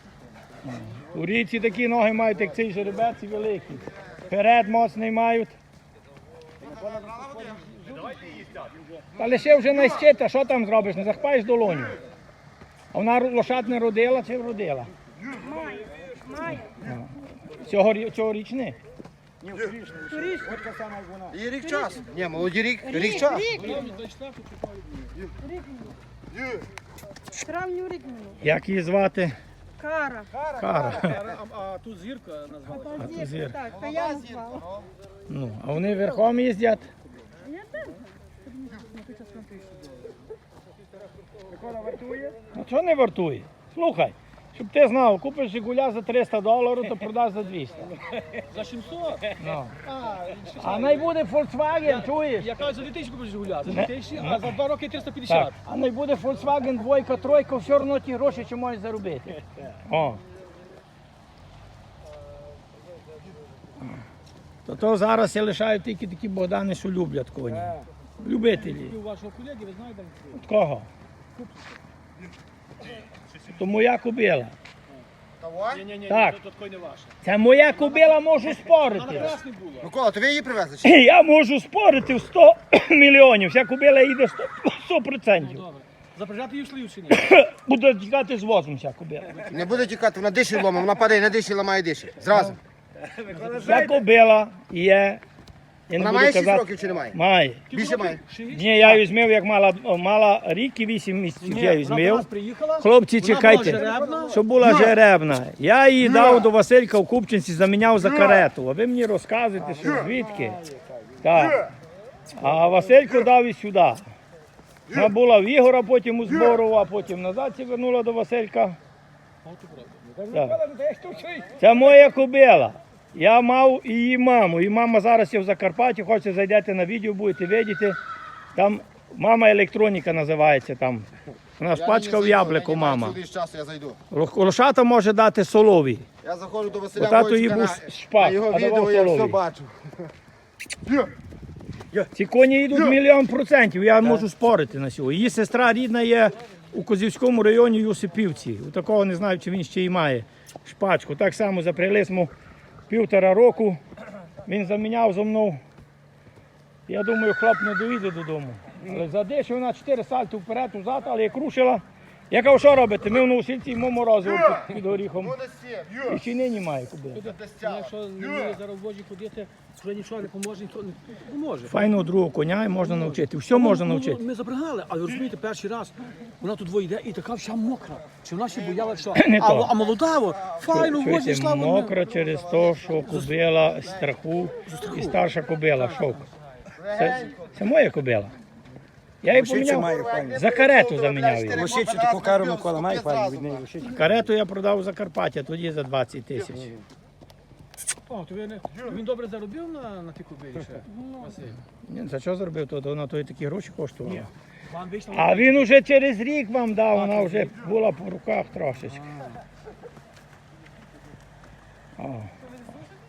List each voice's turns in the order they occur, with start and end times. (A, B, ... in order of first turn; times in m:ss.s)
0:00.6-0:05.6 A
0:06.6-0:08.4 B
0:09.2-0:12.0 A
0:12.9-0:14.9 A
0:15.4-0:16.7 C
0:16.5-0:18.8 A
0:19.4-0:21.5 B
0:20.1-0:20.5 C
0:21.4-0:23.5 D
0:21.6-0:22.0 C
0:22.9-0:23.9 C
0:23.3-0:25.2 E
0:25.4-0:26.0 C
0:27.3-0:28.4 C
0:28.4-0:29.4 A
0:29.8-0:30.3 C
0:30.4-0:33.1 E
0:30.6-0:31.2 A
0:32.8-0:34.6 C
0:33.0-0:33.7 A
0:33.7-0:34.8 D
0:35.3-0:36.9 A
0:37.4-0:39.3 C
0:39.2-0:39.9 E
0:41.5-0:42.4 B
0:42.5-0:47.9 A
0:48.5-0:51.1 E
0:49.4-0:49.8 A
0:50.6-0:52.5 A
0:51.8-0:55.6 E
0:53.7-0:54.5 A
0:55.3-1:00.2 A
1:04.6-1:09.0 A
1:07.5-1:07.9 B
1:08.5-1:10.4 E
1:10.3-1:10.9 A
1:13.5-1:14.5 A
1:15.4-1:15.8 D
1:15.7-1:17.2 E
1:16.1-1:16.4 A
1:17.2-1:19.4 A
1:17.7-1:19.9 E
1:19.8-1:20.9 D
1:20.8-1:25.6 A
1:25.4-1:27.3 E
1:27.1-1:29.5 A
1:29.5-1:32.6 D
1:33.1-1:34.0 B
1:33.3-1:33.9 E
1:33.6-1:35.2 A
1:35.9-1:37.7 A
1:36.0-1:37.1 D
1:37.7-1:39.0 E
1:37.7-1:38.2 D
1:38.5-1:42.3 A
1:41.4-1:44.4 E
1:42.8-1:50.6 A
1:43.5-1:44.4 B
1:49.6-1:51.4 B
1:51.2-1:51.7 A
1:52.4-1:54.0 A
1:54.9-1:58.8 A
1:59.4-2:00.0 E
2:00.0-2:01.7 B
2:00.3-2:00.6 A
2:01.6-2:08.0 A
2:08.6-2:11.1 A
2:11.6-2:13.2 A
2:11.8-2:14.0 D
2:14.1-2:16.1 A
2:16.2-2:19.9 D
2:16.9-2:19.4 A
2:22.1-2:32.3 A
2:32.9-2:33.8 A
2:34.4-2:35.6 A
2:36.9-2:45.4 A
2:45.4-2:46.0 D
2:46.0-2:47.3 A
2:47.1-2:51.8 E
2:51.7-2:54.2 A
2:52.8-3:02.0 E
2:59.1-2:59.7 A
3:00.7-3:06.2 A
3:03.1-3:03.4 E
3:04.7-3:05.2 E
3:06.8-3:07.5 D
3:06.9-3:08.4 A
3:09.2-3:11.8 A
3:09.3-3:10.5 B
3:10.1-3:13.5 D
3:11.5-3:14.3 B
3:13.8-3:16.7 A
3:18.1-3:21.6 E
3:21.7-3:24.3 A
3:24.7-3:25.7 E
3:25.1-3:29.1 A
3:26.9-3:27.5 E
3:29.0-3:29.3 E
3:32.0-3:32.3 A